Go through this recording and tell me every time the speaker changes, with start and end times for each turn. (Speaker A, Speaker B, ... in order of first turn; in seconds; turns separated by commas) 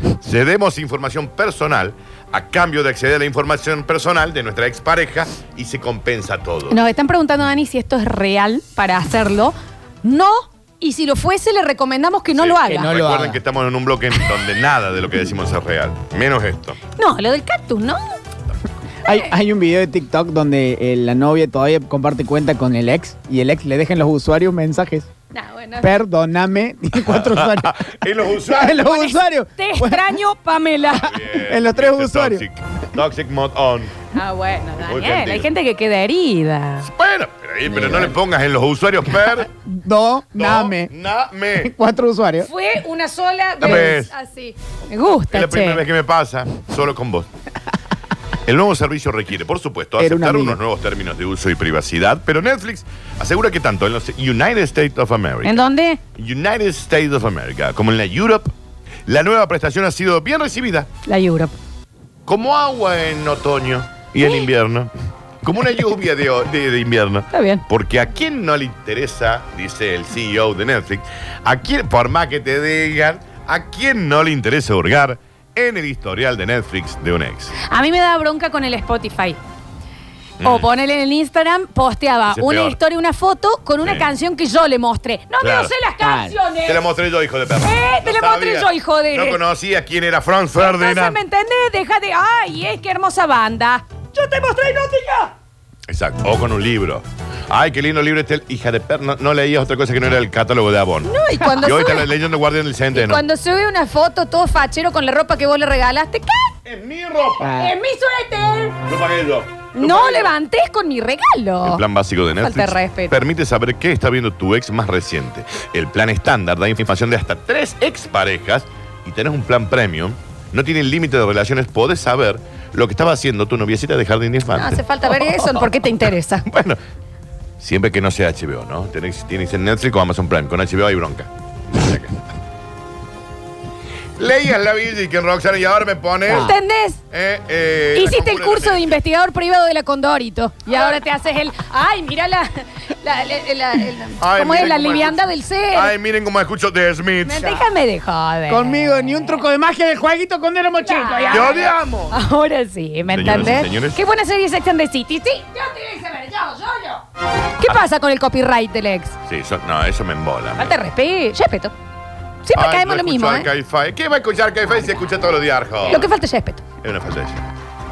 Speaker A: 0.2-6.8, Speaker B: 6.7-12.9, Speaker A: 12.3-16.8, Speaker C: 12.7-13.4, Speaker B: 16.9-18.2, Speaker C: 19.0-25.1, Speaker B: 19.1-19.3, Speaker B: 25.3-26.0, Speaker C: 25.8-27.7, Speaker A: 27.0-28.9, Speaker C: 28.4-30.2, Speaker B: 28.8-31.2, Speaker A: 30.8-33.9, Speaker C: 31.4-32.4, Speaker B: 34.1-36.9, Speaker A: 34.8-35.5, Speaker A: 36.8-39.5, Speaker C: 37.7-38.1, Speaker C: 39.6-40.9, Speaker A: 40.4-41.7, Speaker C: 41.6-42.5, Speaker B: 42.4-45.8, Speaker A: 43.6-44.1, Speaker A: 45.3-47.3, Speaker A: 48.5-55.6, Speaker C: 50.0-50.6, Speaker B: 55.4-56.0, Speaker A: 56.1-58.5, Speaker A: 59.1-60.9, Speaker B: 61.0-61.5, Speaker A: 62.2-64.9, Speaker A: 65.4-77.5, Speaker B: 67.3-67.6, Speaker B: 77.7-79.4, Speaker A: 80.4-80.7, Speaker B: 80.4-86.8, Speaker A: 82.3-82.8, Speaker A: 83.8-84.1, Speaker A: 85.4-85.7, Speaker C: 86.0-86.3, Speaker A: 86.6-91.2, Speaker B: 87.6-89.4, Speaker B: 90.6-95.3, Speaker A: 95.9-103.2, Speaker B: 101.0-102.1, Speaker B: 102.9-106.5, Speaker A: 106.7-107.5, Speaker C: 107.4-107.7, Speaker B: 107.5-108.8, Speaker A: 108.8-110.3, Speaker B: 109.7-111.8, Speaker A: 111.6-125.8, Speaker B: 112.4-113.2, Speaker B: 124.5-126.5, Speaker A: 126.5-126.8, Speaker A: 127.6-132.3, Speaker A: 134.2-136.5, Speaker B: 136.3-137.0, Speaker C: 136.3-136.5, Speaker A: 137.1-138.9, Speaker B: 137.9-145.9, Speaker A: 144.2-147.5, Speaker B: 147.2-149.4, Speaker C: 147.4-147.7, Speaker C: 148.5-151.6, Speaker B: 150.8-157.0, Speaker A: 151.3-152.2, Speaker A: 153.1-154.0, Speaker B: 157.6-159.1, Speaker A: 159.3-160.7, Speaker B: 160.6-161.7, Speaker B: 162.4-163.5, Speaker A: 162.5-166.1, Speaker B: 165.8-166.6, Speaker A: 166.8-167.4